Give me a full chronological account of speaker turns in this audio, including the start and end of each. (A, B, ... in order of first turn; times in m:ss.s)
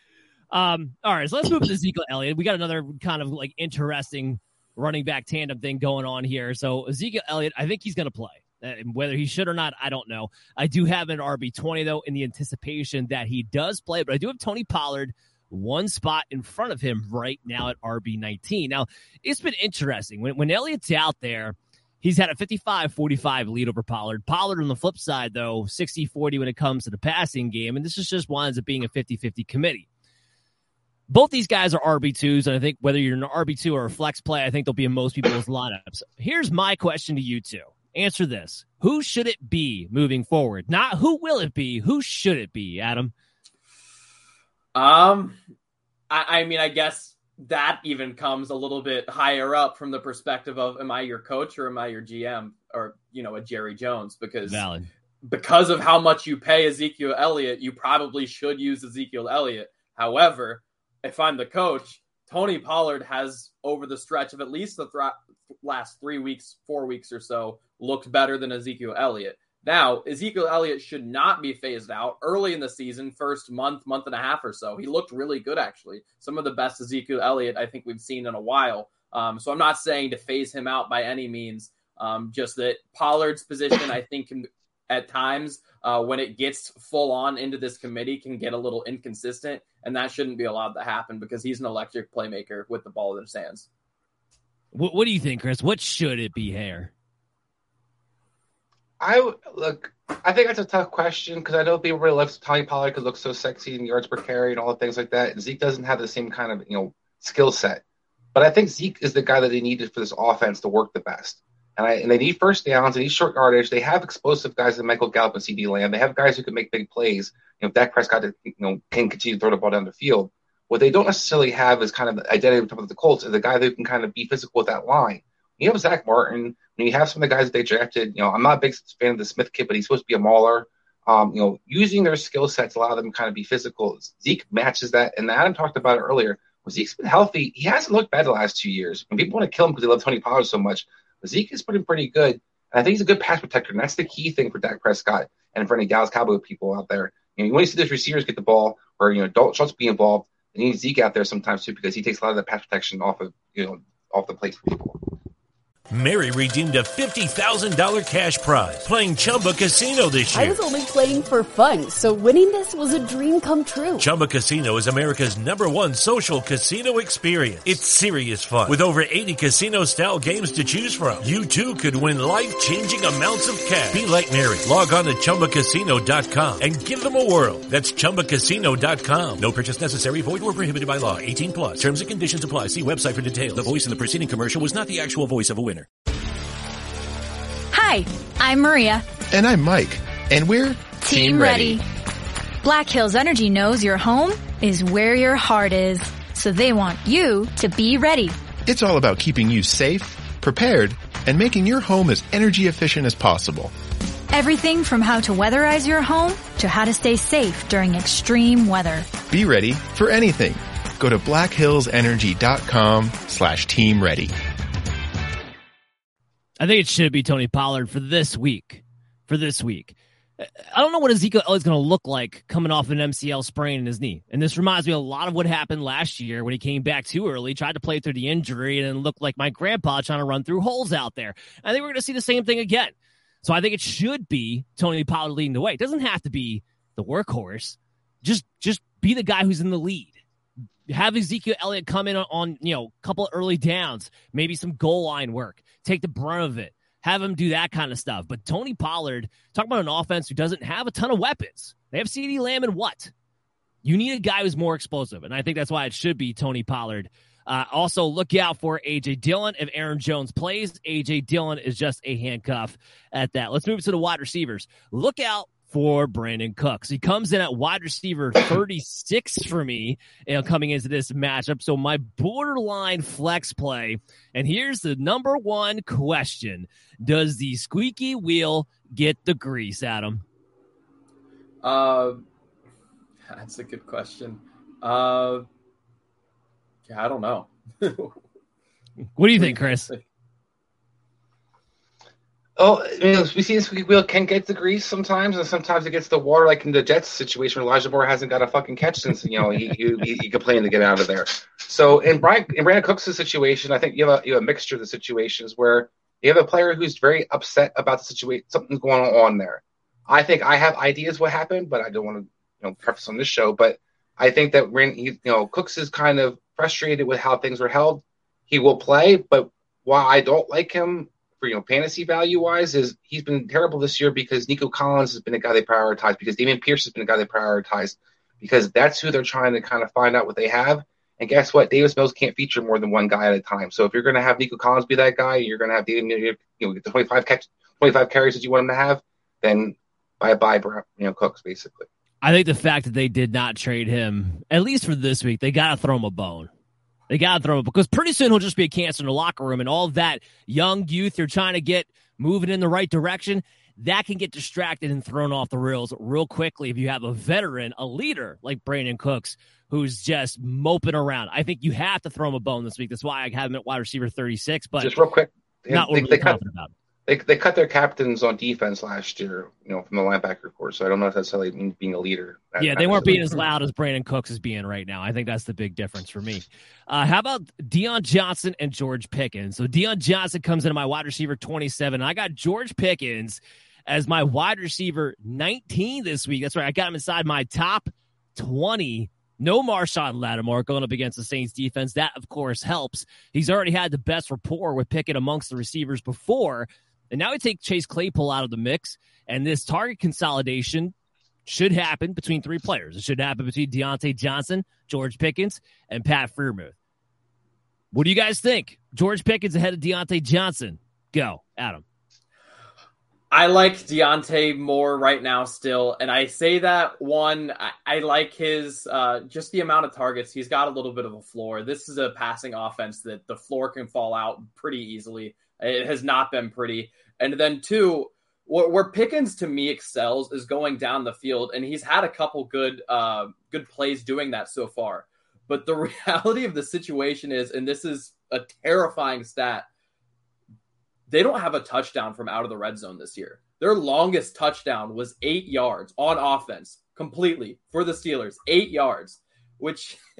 0:00.5-0:29.8 A
0:31.1-0:43.1 A
0:44.7-0:45.4 B
0:46.1-0:54.6 B
0:54.5-0:54.9 A
0:55.2-1:33.7 B
1:34.7-1:36.9 A
1:39.0-1:47.8 C
1:48.3-2:35.0 C
2:35.9-2:40.6 D
2:40.3-2:44.1 E
2:44.0-3:05.9 D
3:07.7-3:09.1 F
3:09.2-3:11.8 G
3:11.0-3:11.8 F
3:12.6-3:18.4 F
3:18.6-3:23.7 G
3:24.3-3:29.1 F
3:29.3-3:34.3 G
3:36.6-4:00.2 A
4:00.9-4:13.1 A
4:13.8-4:40.2 A
4:41.6-4:42.2 B
4:43.2-4:45.4 B
4:46.9-4:48.2 B
4:49.2-4:49.9 A
4:49.4-4:50.0 B
4:52.6-5:41.8 C
5:42.2-5:46.5 A
5:47.1-6:04.9 A
6:04.8-6:06.4 C
6:05.7-6:06.7 A
6:07.0-6:13.4 C
6:12.6-6:40.9 A
6:41.4-6:46.7 A
6:47.9-6:51.8 A
6:53.3-7:19.7 B
7:21.1-7:30.0 B